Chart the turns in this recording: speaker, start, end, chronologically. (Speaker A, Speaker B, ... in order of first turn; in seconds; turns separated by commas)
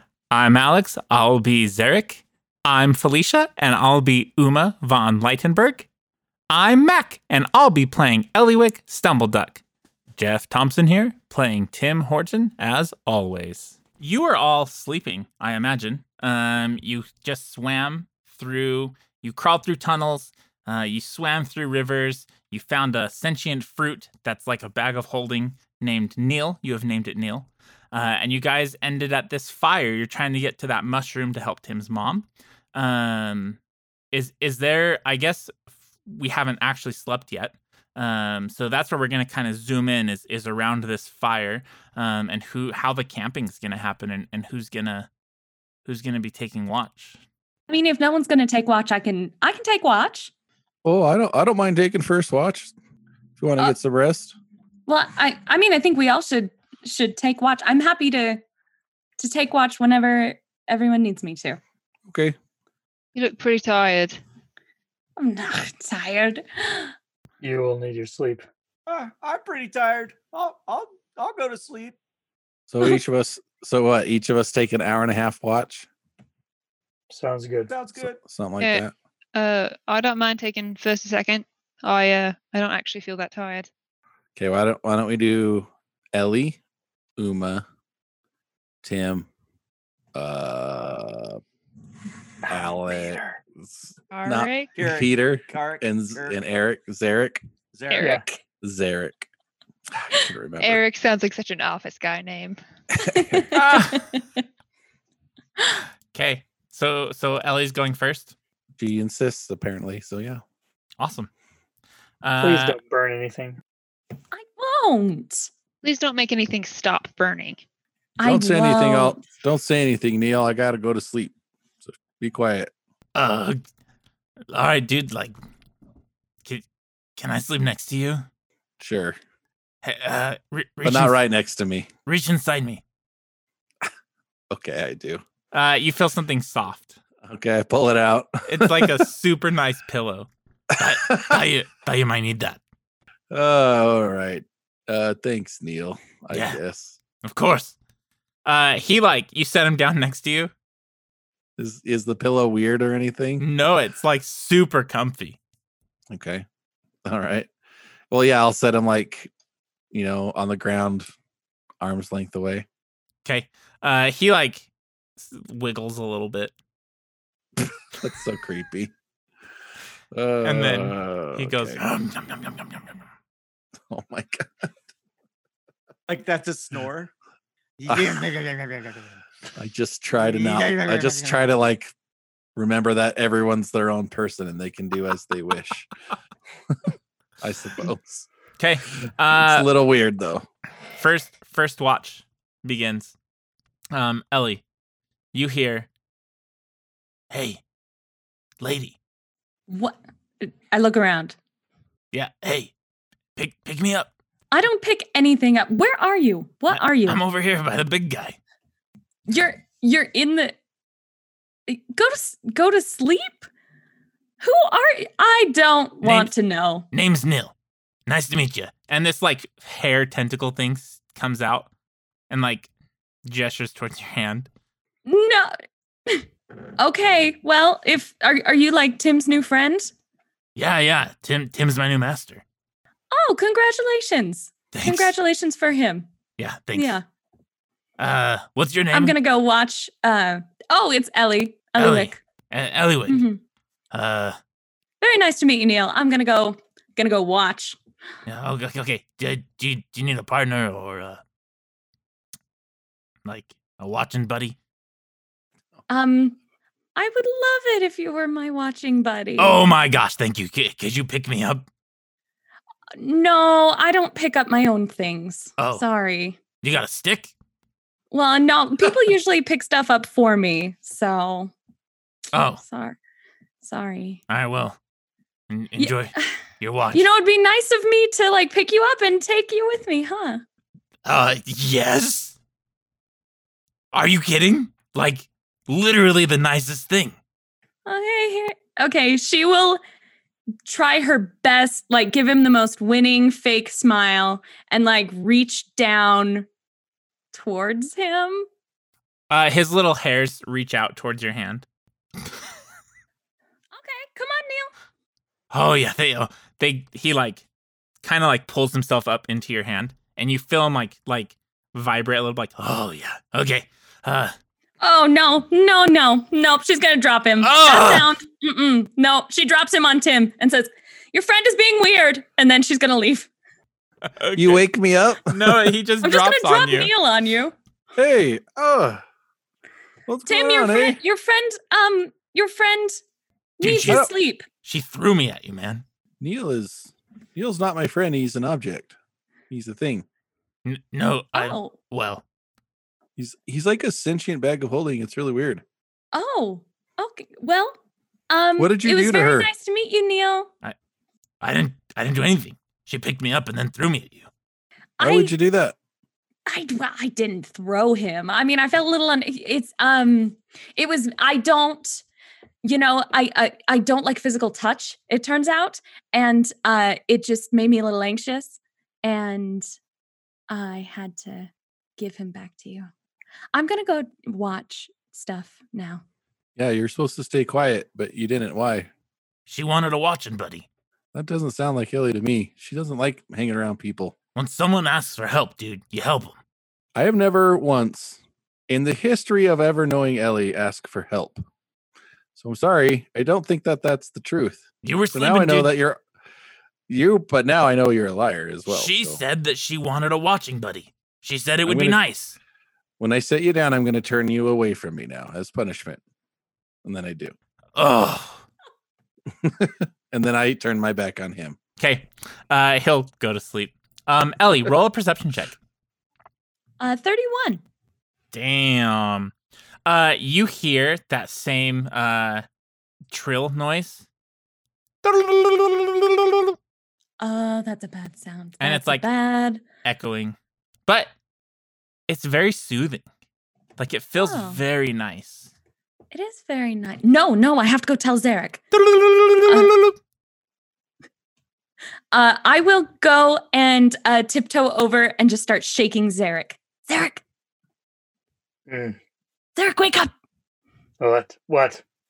Speaker A: 0.3-5.9, Speaker A: 6.5-9.6, Speaker A: 10.2-33.6, Speaker A: 34.1-45.1, Speaker A: 45.9-47.2, Speaker B: 47.7-50.3, Speaker C: 50.8-52.7, Speaker C: 53.4-54.4, Speaker B: 54.9-58.4, Speaker B: 59.2-61.6, Speaker C: 62.1-62.4, Speaker D: 63.1-64.2, Speaker B: 65.2-66.9, Speaker E: 67.4-68.4, Speaker F: 68.8-72.0, Speaker C: 72.7-75.9, Speaker E: 77.1-77.7, Speaker F: 77.7-78.2, Speaker C: 78.0-78.9, Speaker D: 78.6-83.7, Speaker C: 84.3-86.6, Speaker C: 87.2-87.6, Speaker C: 88.8-89.3, Speaker C: 90.1-91.4, Speaker C: 92.5-97.4, Speaker D: 94.1-94.7, Speaker F: 94.7-96.3, Speaker F: 97.7-98.2, Speaker B: 97.9-98.4, Speaker E: 98.0-98.2, Speaker C: 98.6-99.2, Speaker C: 99.9-100.8, Speaker D: 100.6-102.6, Speaker B: 103.0-104.3, Speaker C: 103.0-103.5, Speaker A: 103.5-104.0, Speaker A: 106.1-108.3, Speaker C: 108.8-110.4, Speaker A: 111.0-111.3, Speaker A: 112.2-112.8, Speaker E: 112.4-113.6, Speaker B: 114.3-115.5, Speaker D: 115.8-117.6, Speaker B: 118.2-119.2, Speaker C: 118.2-121.3, Speaker C: 121.8-122.7, Speaker A: 123.1-123.6, Speaker A: 124.5-125.3, Speaker A: 127.2-128.2, Speaker C: 128.8-129.2, Speaker A: 129.8-131.1, Speaker C: 130.8-131.9, Speaker A: 132.1-132.8, Speaker C: 134.5-135.2, Speaker A: 135.5-137.0, Speaker C: 137.2-139.1, Speaker A: 138.5-142.6, Speaker C: 140.8-141.4, Speaker C: 143.3-147.0, Speaker A: 146.3-146.6, Speaker A: 147.2-147.7, Speaker A: 148.4-150.5, Speaker C: 151.6-153.4, Speaker A: 153.4-155.4, Speaker C: 156.1-156.4, Speaker C: 157.0-157.5, Speaker C: 158.1-159.3, Speaker C: 159.9-161.1, Speaker C: 161.8-162.7, Speaker A: 163.2-164.7, Speaker A: 165.2-166.5, Speaker C: 167.6-168.9, Speaker C: 170.1-171.8, Speaker A: 170.4-173.0, Speaker C: 173.9-174.7, Speaker F: 176.1-177.1, Speaker F: 177.8-179.2, Speaker C: 177.9-178.2, Speaker C: 179.6-181.9, Speaker F: 180.2-181.4, Speaker C: 182.6-185.9, Speaker C: 187.4-188.3, Speaker A: 188.6-189.7, Speaker C: 189.3-190.4, Speaker A: 191.0-193.1, Speaker A: 193.9-194.6, Speaker A: 195.3-195.9, Speaker A: 197.3-197.6, Speaker A: 198.6-198.9, Speaker B: 199.7-201.3, Speaker A: 202.1-202.7, Speaker A: 203.3-204.1, Speaker B: 204.5-207.2, Speaker A: 206.7-208.4, Speaker B: 209.3-210.6, Speaker B: 211.7-213.4, Speaker B: 214.4-216.9, Speaker A: 216.0-216.3, Speaker A: 216.9-217.5, Speaker A: 218.1-221.7, Speaker A: 222.3-222.7, Speaker A: 223.2-224.5, Speaker B: 225.1-225.5, Speaker B: 226.8-229.9, Speaker A: 230.6-232.4, Speaker B: 233.1-236.1, Speaker A: 234.7-235.1, Speaker A: 236.4-236.9, Speaker B: 236.7-237.0, Speaker A: 238.0-239.2, Speaker B: 238.9-242.2, Speaker A: 241.8-243.2, Speaker B: 243.1-243.4, Speaker A: 243.9-244.4, Speaker B: 245.0-247.8, Speaker A: 248.2-251.2, Speaker A: 253.2-254.6, Speaker B: 255.9-256.4, Speaker B: 256.9-259.6, Speaker A: 259.4-261.7, Speaker B: 263.0-266.4, Speaker A: 265.6-265.8, Speaker A: 266.6-267.3, Speaker B: 268.1-271.5, Speaker A: 272.3-272.6, Speaker B: 272.6-273.0, Speaker B: 273.6-274.2, Speaker A: 274.3-274.8, Speaker A: 275.5-277.0, Speaker B: 275.8-276.4, Speaker B: 276.9-280.4, Speaker A: 281.0-282.4, Speaker A: 283.9-287.2, Speaker B: 287.9-289.8, Speaker B: 290.6-296.5, Speaker B: 297.3-298.5, Speaker A: 299.3-301.6, Speaker B: 303.7-304.7, Speaker A: 305.5-307.4, Speaker A: 308.0-314.3, Speaker B: 314.8-323.3, Speaker A: 317.4-318.1, Speaker A: 324.2-324.6, Speaker C: 324.4-325.8, Speaker A: 325.2-326.9, Speaker B: 326.0-327.5, Speaker C: 327.9-329.0, Speaker C: 330.1-331.0, Speaker B: 330.2-333.0, Speaker B: 333.6-334.4, Speaker A: 333.6-334.1, Speaker C: 333.8-334.1, Speaker A: 334.6-335.8, Speaker C: 336.2-338.9, Speaker C: 339.5-340.1, Speaker A: 340.6-342.2, Speaker B: 341.3-341.7, Speaker C: 343.2-345.6, Speaker B: 346.1-347.8, Speaker B: 348.3-350.5, Speaker C: 348.6-349.5, Speaker A: 351.4-354.3, Speaker B: 355.0-355.3, Speaker C: 355.0-355.8, Speaker B: 356.4-362.0, Speaker B: 362.6-369.7, Speaker B: 370.5-372.9, Speaker B: 373.5-376.0, Speaker C: 376.6-378.9, Speaker A: 379.5-380.6, Speaker C: 381.1-384.1, Speaker A: 384.4-386.4, Speaker C: 386.9-391.4, Speaker C: 392.4-396.0, Speaker A: 394.8-395.7, Speaker C: 396.9-399.2, Speaker A: 398.7-402.4, Speaker C: 401.6-402.0, Speaker C: 403.0-406.0, Speaker C: 406.8-407.3, Speaker A: 407.8-408.4, Speaker C: 409.4-411.6, Speaker A: 411.8-415.5, Speaker B: 416.8-417.6, Speaker A: 418.3-419.3, Speaker A: 419.9-422.4, Speaker A: 423.1-424.0, Speaker A: 425.0-426.6, Speaker B: 427.2-429.6, Speaker A: 428.6-429.0, Speaker A: 429.8-430.4, Speaker A: 430.9-431.1, Speaker A: 432.1-433.0, Speaker A: 433.8-435.5, Speaker B: 434.2-434.6, Speaker B: 436.1-438.6, Speaker A: 438.7-439.9, Speaker B: 439.5-439.7, Speaker B: 442.1-447.2, Speaker E: 448.7-449.0, Speaker B: 449.6-450.1, Speaker E: 451.0-451.8